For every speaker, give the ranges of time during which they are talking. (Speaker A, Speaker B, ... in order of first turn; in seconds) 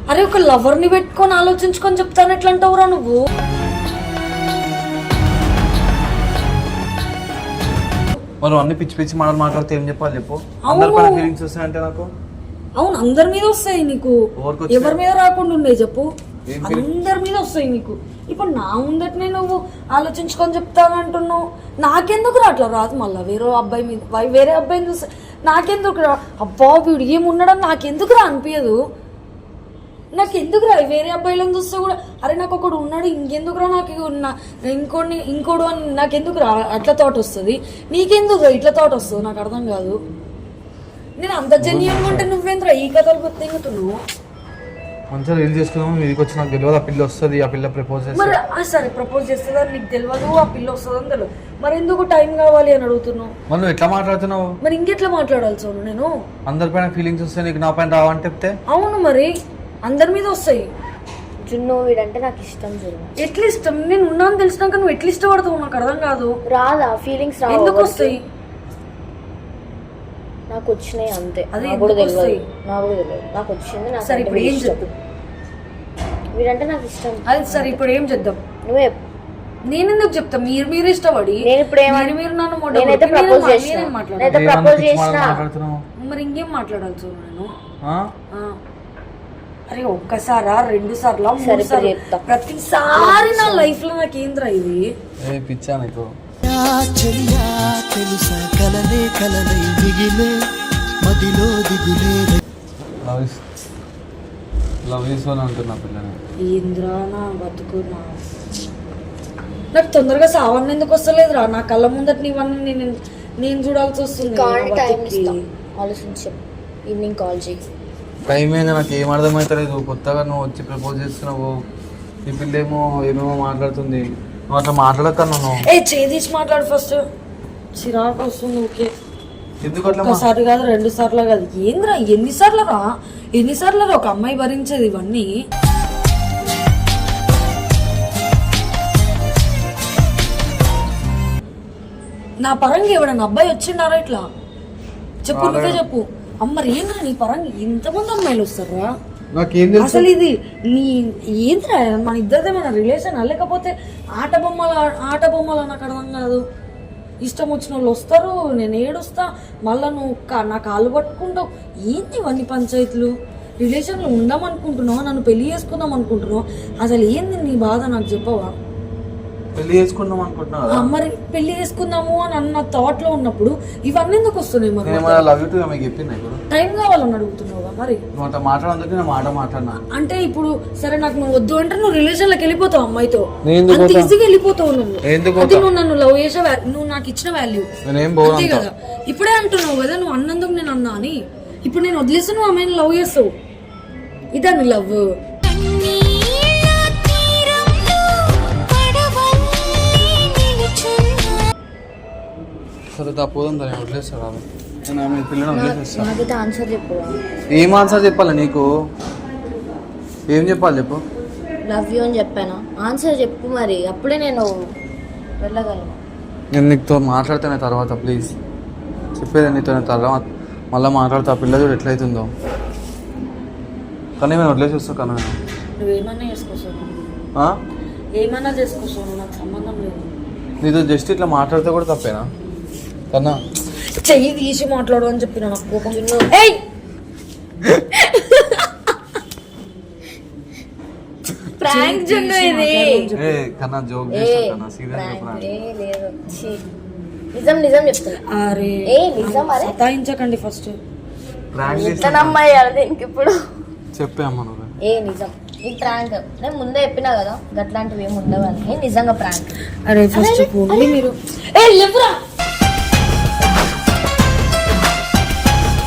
Speaker A: 0.1-3.2, 10.7-11.3, 12.8-14.2, 14.7-16.1, 16.6-28.8, 30.1-40.0, 41.2-44.0, 48.1-53.3, 54.6-56.1, 58.7-59.3, 59.9-60.7, 63.2-66.3, 67.5-68.2, 71.5-72.4, 74.0-74.8, 77.3-78.4, 79.7-84.4, 86.0-87.5, 89.7-94.9, 106.4-108.2, 109.7-115.4, 125.6-127.0, 127.8-128.9, 130.0-135.3, 142.4-144.2, 145.2-148.9, 149.8-156.4, 157.2-163.1, 163.6-168.5, 170.7-175.3, 176.5-178.0, 179.9-187.7, 188.2-193.3, 194.3-196.7, 197.3-197.7, 198.7-199.4, 200.1-201.3, 225.8-226.9, 228.2-230.1, 233.9-236.6, 237.7-238.7, 241.6-243.4, 248.3-250.8, 259.9-262.2
Speaker B: 8.4-12.1, 14.3-15.0, 16.5-16.9, 41.6-42.3, 45.1-48.4, 53.5-54.6, 56.5-58.6, 84.3-85.8, 87.8-88.1, 95.2-96.1, 103.0-103.4, 104.8-106.2, 118.3-121.5, 122.2-125.6, 129.6-130.2, 145.3-145.8, 149.3-150.1, 169.5-170.9, 174.8-176.4, 178.1-179.8, 183.4-184.1, 185.0-185.7, 187.8-188.7, 202.9-206.1, 207.5-208.7, 210.3-211.0, 216.5-218.3, 219.2-222.3, 224.2-225.3, 230.6-232.3, 233.1-233.4, 243.1-245.5, 251.5-252.4, 253.9-254.7
Speaker C: 61.4-63.1, 66.5-68.1, 70.5-74.9, 76.3-77.8, 78.6-79.0, 81.4-82.2, 82.7-85.4, 91.4-92.3, 92.9-93.8, 114.2-117.6, 205.5-207.2, 211.6-214.6, 215.4-216.0, 235.7-236.3, 241.6-243.1, 244.1-246.6, 247.3-248.2, 248.9-249.7, 251.6-253.4, 254.8-260.9
Speaker D: 96.4-100.4, 101.0-102.4